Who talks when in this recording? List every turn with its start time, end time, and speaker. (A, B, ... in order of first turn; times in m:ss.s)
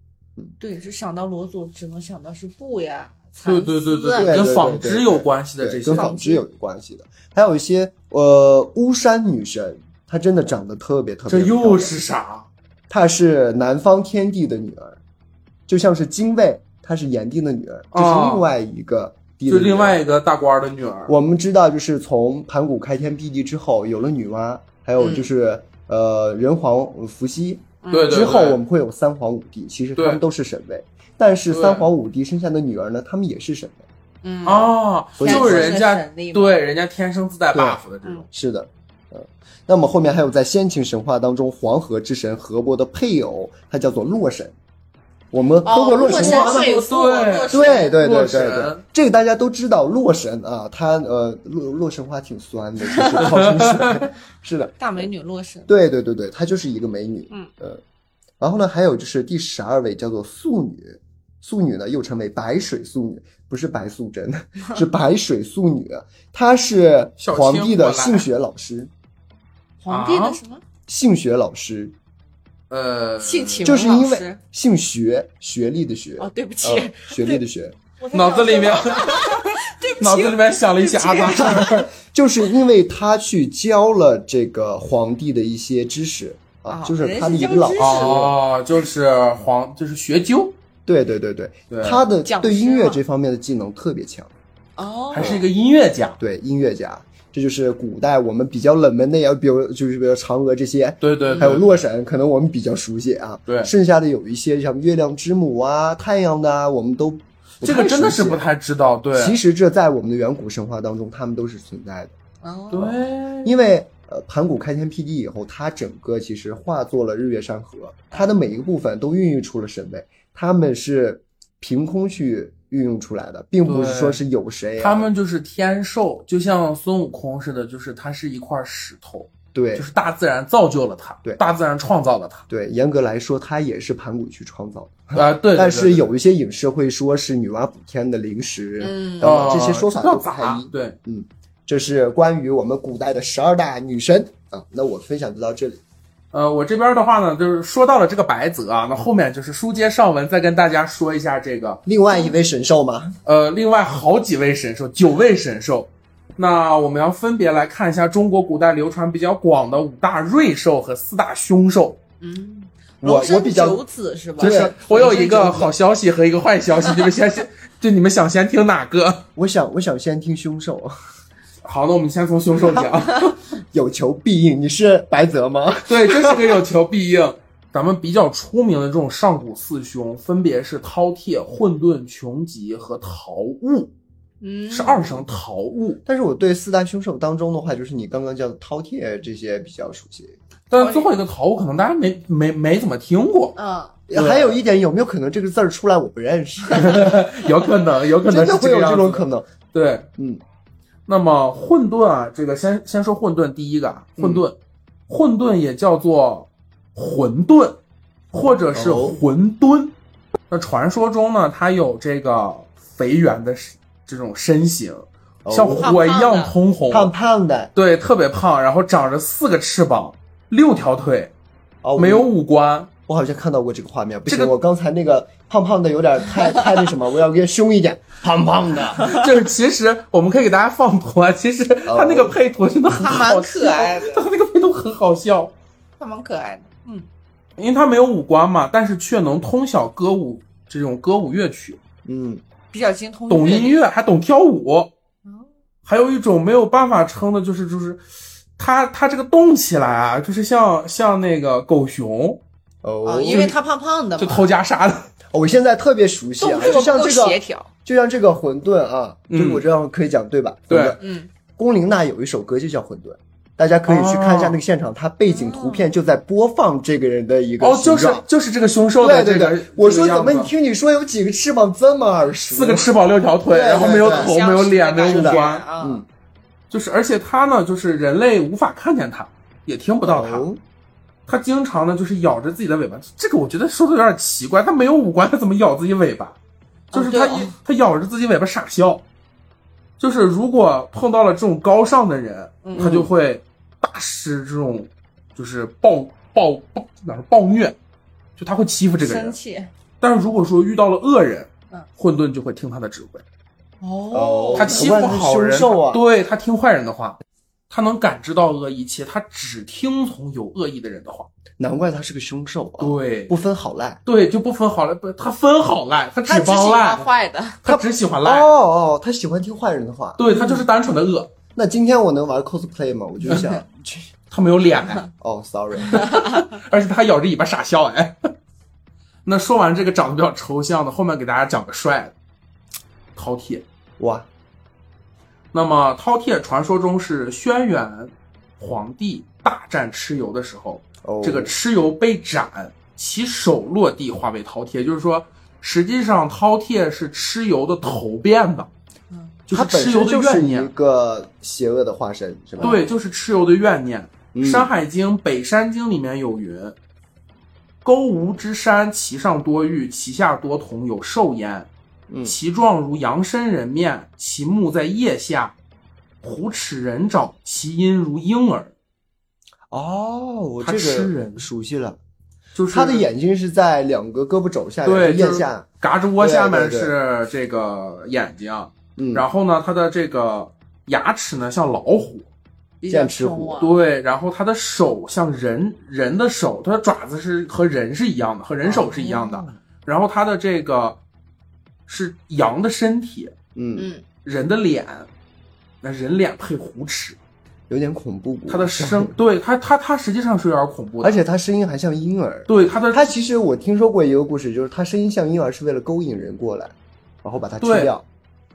0:00.6-0:04.4 A
0:03.4-0:06.2 B
0:04.2-0:11.9 C
0:05.9-0:06.4 A
0:11.3-0:12.5 B
0:12.9-0:15.0 C
0:15.7-0:20.0 C
0:17.9-0:18.4 B
0:19.5-0:21.1 B
0:21.1-0:33.9 C
0:25.0-0:25.3 A
0:27.8-0:28.3 A
0:27.9-0:28.6 B
0:30.0-0:30.2 B
0:31.5-0:31.9 B
0:34.2-0:36.6 A
0:34.4-0:38.3 B
0:35.2-0:35.8 C
0:37.5-0:44.6 C
0:45.3-0:46.7 C
0:45.6-0:48.0 A
0:45.9-0:48.8 B
0:47.5-0:55.1 C
0:52.9-0:53.2 A
0:53.2-0:54.0 B
0:54.8-0:55.8 A
0:55.7-0:57.8 C
0:58.4-1:08.9 C
1:07.2-1:08.3 B
1:09.8-1:10.6 A
1:09.9-1:10.4 B
1:10.9-1:11.9 C
1:12.7-1:13.8 B
1:13.2-1:14.4 A
1:13.6-1:17.8 C
1:16.2-1:17.4 A
1:18.0-1:21.8 A
1:18.1-1:21.8 B
1:21.3-1:28.4 C
1:26.7-1:28.2 A
1:27.8-1:30.5 B
1:30.8-1:34.3 C
1:31.7-1:32.0 B
1:32.2-1:33.0 A
1:34.8-1:35.4 A
1:35.1-1:36.2 B
1:35.2-1:35.4 C
1:36.2-1:48.5 C
1:41.0-1:41.7 B
1:41.2-1:41.6 A
1:47.6-1:49.4 B
1:49.1-1:52.1 C
1:52.4-1:52.9 A
1:52.7-1:53.6 B
1:52.8-2:05.1 C
2:03.6-2:04.2 B
2:04.8-2:12.4 B
2:09.5-2:09.9 C
2:12.5-2:25.8 C
2:15.1-2:16.1 B
2:18.8-2:19.5 A
2:19.2-2:21.0 B
2:26.3-2:31.8 B
2:31.8-2:33.1 C
2:33.2-2:42.0 B
2:42.2-2:45.7 A
2:43.0-2:43.8 C
2:44.4-2:45.7 C
2:44.4-2:49.2 B
2:49.4-2:50.9 C
2:51.6-2:53.4 B
2:53.7-2:56.6 C
2:55.9-3:03.9 B
3:04.4-3:05.2 A
3:04.7-3:06.0 B
3:06.0-3:10.4 C
3:10.7-3:13.6 B
3:10.8-3:11.1 A
3:13.6-3:14.0 A
3:14.1-3:17.4 C
3:14.1-3:14.6 B
3:16.7-3:20.1 B
3:18.2-3:19.5 C
3:20.2-3:20.4 C
3:21.1-3:24.5 B
3:24.2-3:24.4 C
3:25.1-3:27.8 B
3:28.3-3:29.9 B
3:28.7-3:29.2 C
3:30.5-3:37.1 B
3:35.4-3:35.9 C
3:35.8-3:36.5 A
3:36.9-3:37.7 C
3:37.7-3:41.3 B
3:41.8-3:42.3 C
3:42.0-3:42.9 B
3:43.1-3:49.1 C
3:44.3-3:44.5 B
3:46.4-3:46.7 A
3:49.0-3:55.5 B
3:51.8-3:52.4 C
3:52.9-3:54.2 A
3:56.0-3:57.0 A
3:57.6-4:01.8 B
4:02.0-4:02.4 C
4:02.7-4:03.8 A
4:03.3-4:04.9 B
4:05.8-4:08.0 B
4:08.6-4:12.4 B
4:12.8-4:13.5 C
4:13.0-4:14.5 A
4:13.2-4:13.5 B
4:14.2-4:15.1 B
4:15.3-4:21.0 C
4:16.4-4:17.7 A
4:19.3-4:19.6 B
4:20.7-4:21.0 B
4:21.0-4:21.3 A
4:21.6-4:28.2 C
4:23.9-4:24.6 B
4:25.3-4:25.9 A
4:27.6-4:30.5 B
4:29.0-4:32.9 C
4:32.5-4:35.6 B
4:33.5-4:34.3 C
4:33.7-4:36.0 A
4:35.1-4:36.0 C
4:36.7-4:40.4 B
4:40.0-4:40.6 C
4:41.3-4:46.4 B
4:46.9-4:47.5 A
4:46.9-4:49.0 B
4:50.0-4:57.8 B
4:52.6-4:53.0 A
4:52.7-4:53.1 C
4:58.4-4:59.4 B
4:59.0-4:59.7 A
5:00.0-5:03.2 B
5:03.8-5:05.0 A
5:04.1-5:06.0 C
5:04.5-5:11.3 B
5:11.6-5:14.0 C
5:12.8-5:13.4 B
5:14.0-5:17.1 B
5:16.2-5:17.6 A
5:17.6-5:18.5 B
5:17.6-5:20.2 C
5:20.2-5:21.3 B
5:20.3-5:20.6 A
5:21.5-5:24.1 C
5:24.3-5:25.1 B
5:25.2-5:26.1 C
5:25.8-5:28.2 B
5:29.2-5:32.1 B
5:33.2-5:33.6 B
5:34.0-5:34.3 C
5:35.5-5:48.7 B
5:41.0-5:41.5 C
5:49.1-5:49.4 A
5:49.5-5:50.7 B
5:49.5-5:52.8 C
5:52.6-5:56.7 B
5:52.6-5:52.8 A
5:54.3-5:54.7 C
5:57.8-6:01.7 B
6:02.1-6:02.4 C
6:02.2-6:05.5 B
6:06.2-6:08.7 B
6:09.7-6:12.0 C
6:10.6-6:11.5 B
6:12.5-6:13.0 B
6:12.7-6:15.6 C
6:14.8-6:22.3 B
6:16.2-6:16.9 C
6:19.0-6:19.2 C
6:22.8-6:23.7 A
6:22.9-6:23.6 C
6:23.6-6:31.0 B
6:28.6-6:29.0 C
6:28.7-6:29.5 A
6:31.9-6:33.3 B
6:33.5-6:33.9 C
6:33.8-6:34.0 A
6:34.2-6:35.1 B
6:35.8-6:37.2 B
6:37.7-6:39.1 C
6:38.5-6:41.2 B
6:41.0-6:48.0 C
6:42.5-6:43.1 B
6:47.6-6:47.9 B